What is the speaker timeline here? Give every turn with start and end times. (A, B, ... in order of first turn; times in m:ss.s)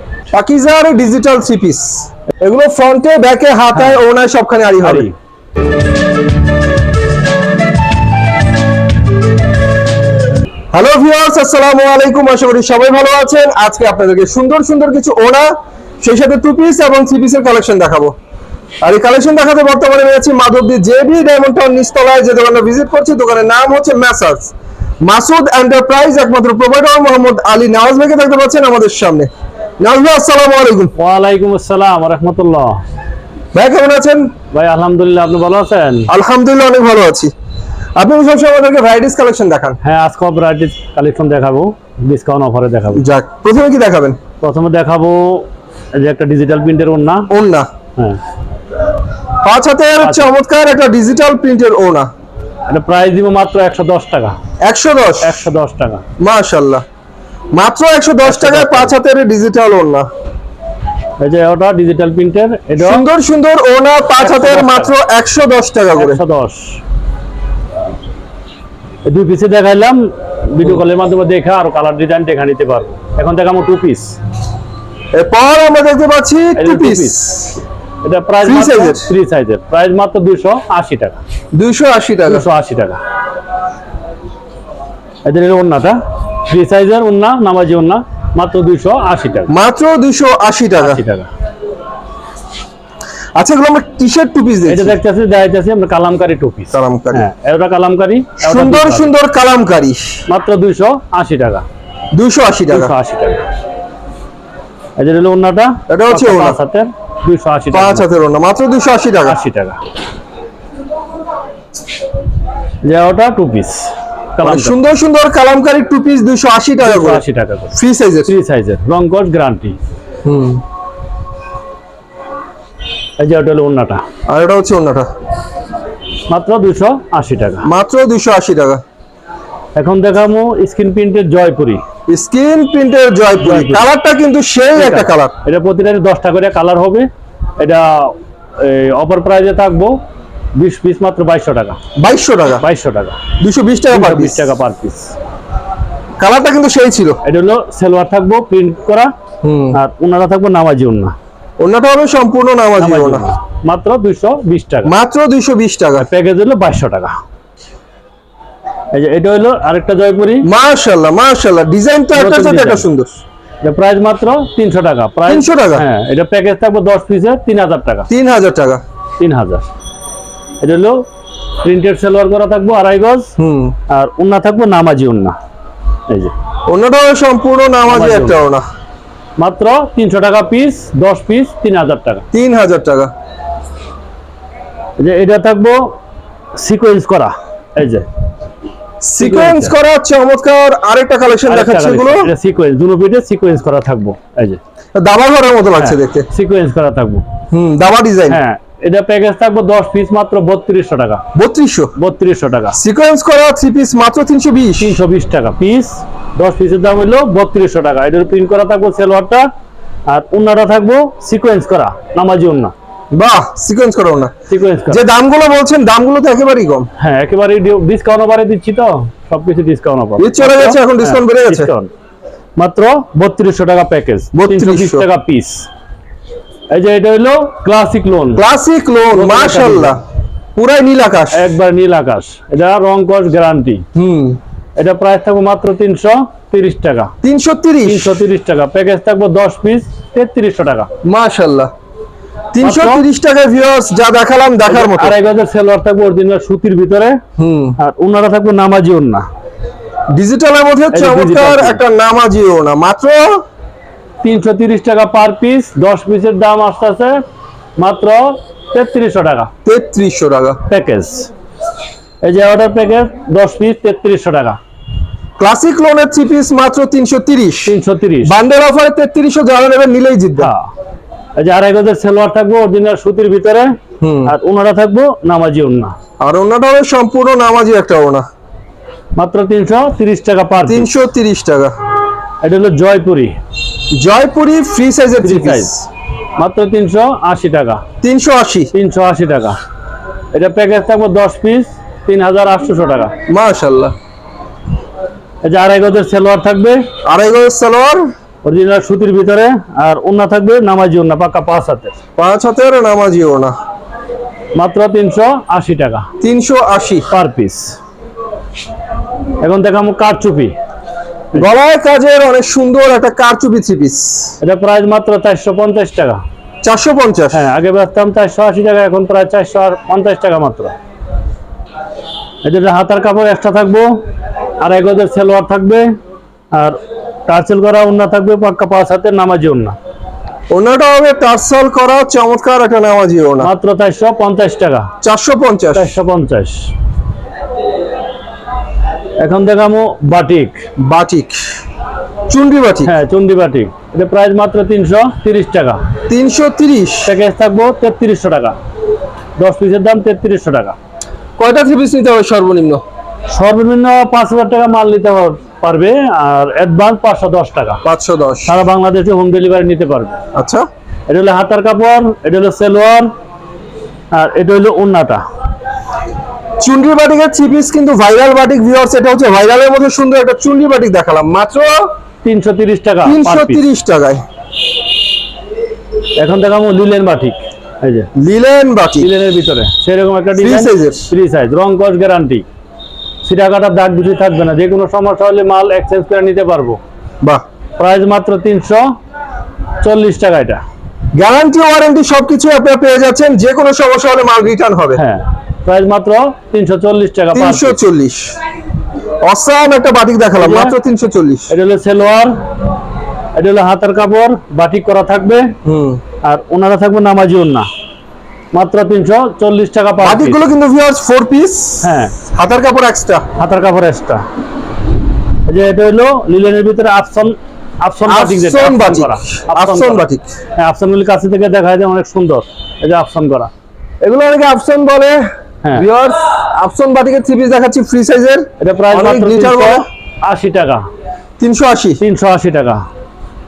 0:00.3-0:05.1 A
0:04.8-0:05.1 B
0:10.7-0:18.1 A
0:18.8-0:30.9 A
0:31.0-0:32.8 B
0:33.5-0:34.3 A
0:34.5-0:36.1 B
0:36.1-0:37.3 A
0:38.0-0:39.8 A
0:39.8-0:43.0 B
0:42.9-0:44.2 A
0:44.4-0:47.3 B
0:47.3-0:47.7 A
0:49.4-0:52.1 A
0:50.0-0:50.3 B
0:52.7-0:54.3 B
0:54.6-0:55.5 A
0:55.2-0:56.0 B
0:56.2-0:56.8 A
0:57.5-1:00.1 A
0:58.2-0:58.9 B
1:01.2-1:03.0 B
1:02.8-1:06.2 A
1:04.2-1:04.9 B
1:05.9-1:06.8 B
1:09.0-1:14.2 B
1:15.1-1:17.2 A
1:16.6-1:17.4 B
1:18.0-1:21.2 B
1:18.4-1:19.1 A
1:21.5-1:22.4 A
1:22.3-1:23.0 B
1:25.2-1:29.5 B
1:29.5-1:31.0 A
1:30.8-1:31.3 B
1:33.4-1:34.9 A
1:34.7-1:39.1 B
1:36.7-1:37.2 A
1:38.4-1:40.2 A
1:40.3-1:41.6 B
1:42.1-1:42.9 A
1:42.7-1:43.4 B
1:45.0-1:48.0 B
1:45.9-1:46.6 A
1:47.7-1:49.4 A
1:49.2-1:49.8 B
1:52.8-1:54.7 B
1:54.4-1:57.2 A
1:56.8-1:57.7 B
1:57.7-1:58.3 A
1:58.3-1:59.8 B
2:00.2-2:00.6 A
2:03.2-2:04.0 B
2:04.3-2:05.1 A
2:06.3-2:07.7 B
2:07.6-2:08.8 A
2:09.8-2:11.8 B
2:12.1-2:15.3 A
2:13.4-2:13.8 B
2:14.8-2:17.1 B
2:17.6-2:20.0 B
2:20.5-2:21.8 B
2:22.0-2:22.6 A
2:22.6-2:23.2 B
2:23.4-2:24.5 A
2:23.9-2:25.1 B
2:26.2-2:27.2 A
2:27.2-2:29.1 B
2:29.4-2:29.8 A
2:29.7-2:31.1 B
2:31.6-2:33.3 A
2:32.8-2:34.9 B
2:34.8-2:36.0 A
2:36.0-2:37.1 B
2:38.9-2:40.4 B
2:40.4-2:43.2 A
2:42.1-2:42.9 B
2:43.6-2:48.1 B
2:45.3-2:45.8 A
2:48.1-2:48.8 A
2:49.2-2:49.6 B
2:50.6-2:51.0 B
2:51.6-2:53.3 B
2:53.4-2:53.7 A
2:53.9-2:55.3 B
2:56.1-2:56.3 B
2:56.7-2:58.6 A
2:57.9-2:58.4 B
2:59.4-3:02.2 B
3:02.3-3:03.1 A
3:05.0-3:05.9 B
3:06.6-3:08.0 B
3:09.0-3:12.3 A
3:09.2-3:09.7 B
3:11.5-3:14.6 B
3:14.9-3:16.3 A
3:15.8-3:17.2 B
3:17.5-3:18.4 A
3:18.3-3:21.2 B
3:21.3-3:21.9 A
3:22.0-3:22.8 B
3:22.7-3:25.0 A
3:24.8-3:29.5 B
3:30.1-3:32.7 B
3:33.1-3:34.3 A
3:34.5-3:35.0 B
3:34.9-3:36.9 A
3:37.0-3:41.9 B
3:40.2-3:41.7 A
3:42.6-3:45.7 B
3:44.3-3:45.1 A
3:46.7-3:48.4 B
3:48.4-3:50.0 A
3:49.1-3:50.0 B
3:50.6-3:51.4 A
3:51.3-3:53.8 B
3:53.9-3:54.4 A
3:54.8-3:57.1 B
3:57.2-3:58.2 A
3:57.8-4:00.9 B
4:01.0-4:01.7 A
4:02.5-4:05.2 A
4:02.6-4:03.0 B
4:04.7-4:07.2 B
4:07.4-4:07.8 A
4:07.8-4:09.2 B
4:10.1-4:13.4 A
4:10.9-4:11.8 B
4:14.2-4:17.2 B
4:17.8-4:19.5 B
4:19.6-4:20.6 A
4:20.7-4:21.3 B
4:22.2-4:24.6 B
4:25.4-4:27.7 A
4:27.6-4:28.3 B
4:28.2-4:30.5 A
4:30.4-4:30.7 B
4:31.4-4:33.7 B
4:34.0-4:34.3 A
4:34.3-4:35.9 B
4:36.2-4:38.2 A
4:39.2-4:40.9 B
4:40.6-4:41.7 A
4:42.4-4:43.3 B
4:43.9-4:45.9 A
4:45.2-4:45.7 B
4:46.4-4:47.8 B
4:48.0-4:48.7 A
4:48.7-4:49.6 B
4:50.3-4:53.1 B
4:53.3-4:53.9 A
4:55.4-4:56.8 B
4:57.0-4:58.1 A
4:58.4-5:02.0 B
5:02.2-5:03.5 A
5:04.5-5:06.1 B
5:06.2-5:07.1 A
5:07.1-5:07.8 B
5:09.4-5:10.5 B
5:11.3-5:14.3 A
5:14.4-5:16.2 B
5:16.6-5:17.4 A
5:17.3-5:20.7 B
5:22.4-5:23.9 B
5:24.6-5:25.9 B
5:26.5-5:29.8 B
5:30.5-5:33.5 A
5:33.4-5:34.9 B
5:35.0-5:35.9 A
5:35.8-5:36.7 B
5:39.2-5:40.7 B
5:40.8-5:41.4 A
5:42.3-5:42.9 A
5:42.8-5:45.8 B
5:46.1-5:47.1 A
5:47.0-5:48.6 B
5:49.4-5:50.8 B
5:51.4-5:52.8 A
5:53.3-5:57.8 B
5:57.8-5:58.5 A
5:58.4-6:00.1 B
6:00.3-6:00.6 A
6:01.1-6:03.1 B
6:04.1-6:05.2 B
6:06.6-6:11.9 A
6:12.2-6:13.6 B
6:13.0-6:14.2 A
6:16.2-6:18.1 B
6:18.1-6:19.1 A
6:19.0-6:22.4 B
6:20.4-6:21.1 A
6:23.2-6:26.8 B
6:27.8-6:28.8 B
6:29.8-6:30.6 B
6:31.1-6:35.0 A
6:35.0-6:37.8 B
6:37.3-6:38.3 A
6:39.2-6:41.5 A
6:40.4-6:40.7 B
6:41.5-6:42.4 B
6:43.3-6:45.5 B
6:45.6-6:46.0 A
6:46.2-6:47.6 B
6:48.5-6:50.4 B
6:50.0-6:53.2 A
6:51.8-6:52.2 B
6:53.4-6:54.2 B
6:55.5-7:00.0 B
6:58.1-7:00.3 A
7:00.6-7:03.5 B
7:04.0-7:09.8 A
7:08.6-7:10.8 B
7:11.4-7:12.0 A
7:12.0-7:12.8 B